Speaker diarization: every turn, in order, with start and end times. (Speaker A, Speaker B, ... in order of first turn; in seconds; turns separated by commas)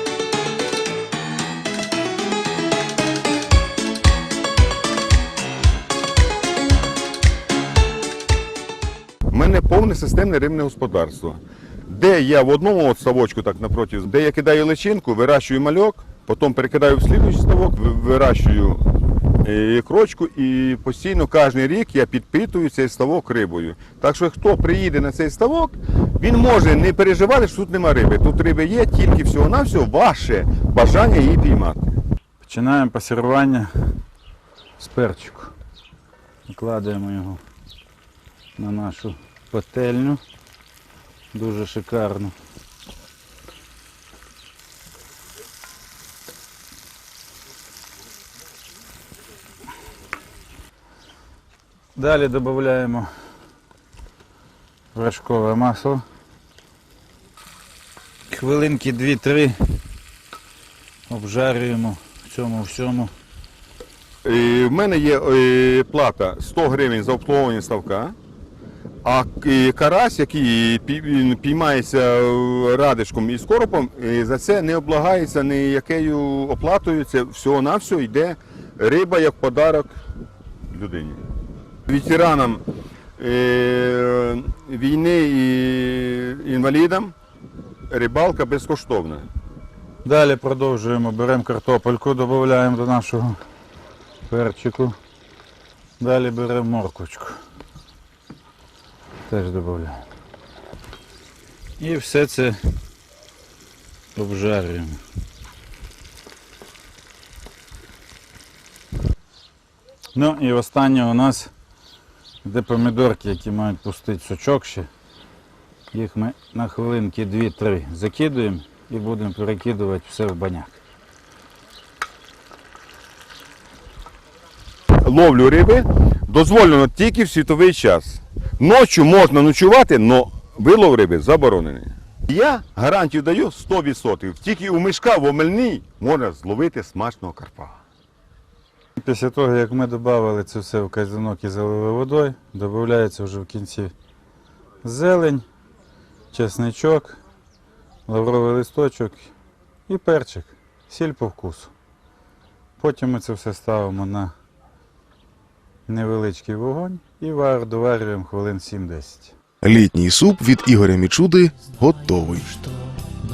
Speaker A: 9.3-31.9, Speaker B: 32.4-34.0, Speaker B: 34.8-35.5, Speaker B: 36.5-37.4, Speaker B: 38.6-40.2, Speaker B: 41.3-42.3, Speaker B: 52.0-53.1, Speaker B: 54.9-56.0, Speaker B: 58.3-59.8, Speaker B: 61.1-63.1, Speaker A: 64.2-68.2, Speaker A: 69.0-79.9, Speaker A: 80.7-81.2, Speaker A: 81.9-82.6, Speaker A: 83.2-87.1, Speaker A: 87.9-89.3, Speaker B: 90.0-93.4, Speaker B: 94.3-95.0, Speaker B: 96.0-97.4, Speaker B: 99.3-100.0, Speaker B: 101.8-102.6, Speaker B: 104.1-105.0, Speaker B: 110.1-111.5, Speaker B: 112.4-114.9, Speaker B: 115.9-120.8, Speaker A: 125.0-137.8, Speaker B: 139.0-143.9, Speaker B: 144.8-145.4, Speaker B: 146.3-147.2, Speaker B: 148.1-149.3, Speaker B: 149.9-151.7, Speaker B: 152.8-154.3, Speaker B: 155.9-159.3, Speaker C: 159.6-162.6